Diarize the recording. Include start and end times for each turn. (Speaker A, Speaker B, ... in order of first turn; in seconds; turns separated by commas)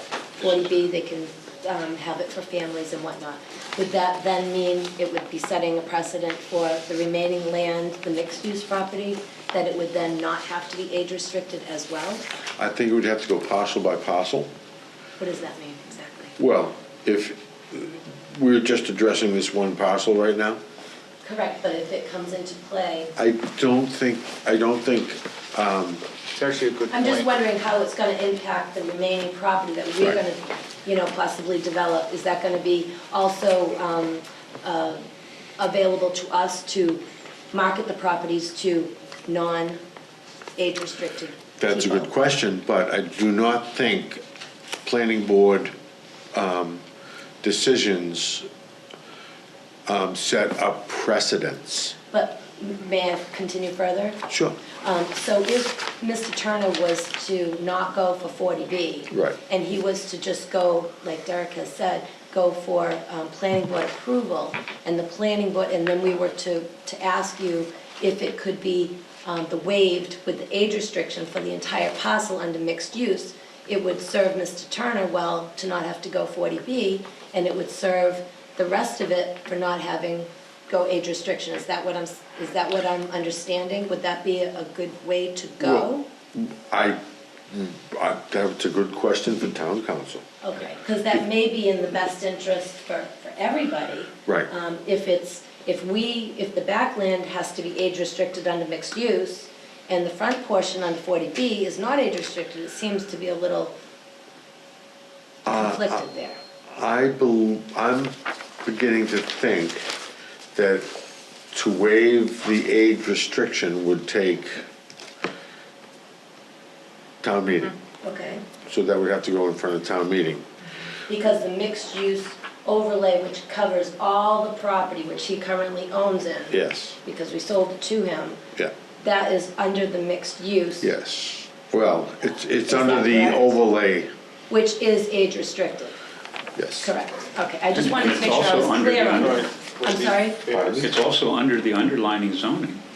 Speaker A: 0.4-12.2, Speaker B: 12.6-14.5, Speaker A: 15.2-16.4, Speaker B: 16.4-20.6, Speaker A: 21.2-23.1, Speaker B: 23.2-26.0, Speaker C: 26.3-27.3, Speaker A: 26.9-35.0, Speaker A: 35.6-39.8, Speaker A: 40.6-42.1, Speaker B: 41.6-44.2, Speaker B: 44.8-45.7, Speaker B: 46.3-46.8, Speaker B: 47.4-48.5, Speaker B: 49.9-52.0, Speaker A: 52.1-86.1, Speaker B: 54.3-54.6, Speaker B: 59.1-59.4, Speaker B: 85.6-87.0, Speaker B: 87.5-90.2, Speaker A: 90.4-103.7, Speaker B: 105.5-106.0, Speaker A: 105.5-106.4, Speaker B: 106.7-109.9, Speaker B: 110.5-110.9, Speaker B: 111.5-114.6, Speaker B: 117.2-117.7, Speaker A: 118.0-118.4, Speaker B: 118.7-120.5, Speaker A: 121.1-128.4, Speaker B: 126.5-127.0, Speaker A: 129.0-130.9, Speaker B: 130.8-134.1, Speaker A: 132.6-133.6, Speaker A: 134.5-135.9, Speaker B: 136.6-136.9, Speaker A: 136.8-140.4, Speaker D: 137.7-139.4, Speaker C: 139.2-140.9, Speaker B: 140.5-140.9, Speaker D: 140.8-142.8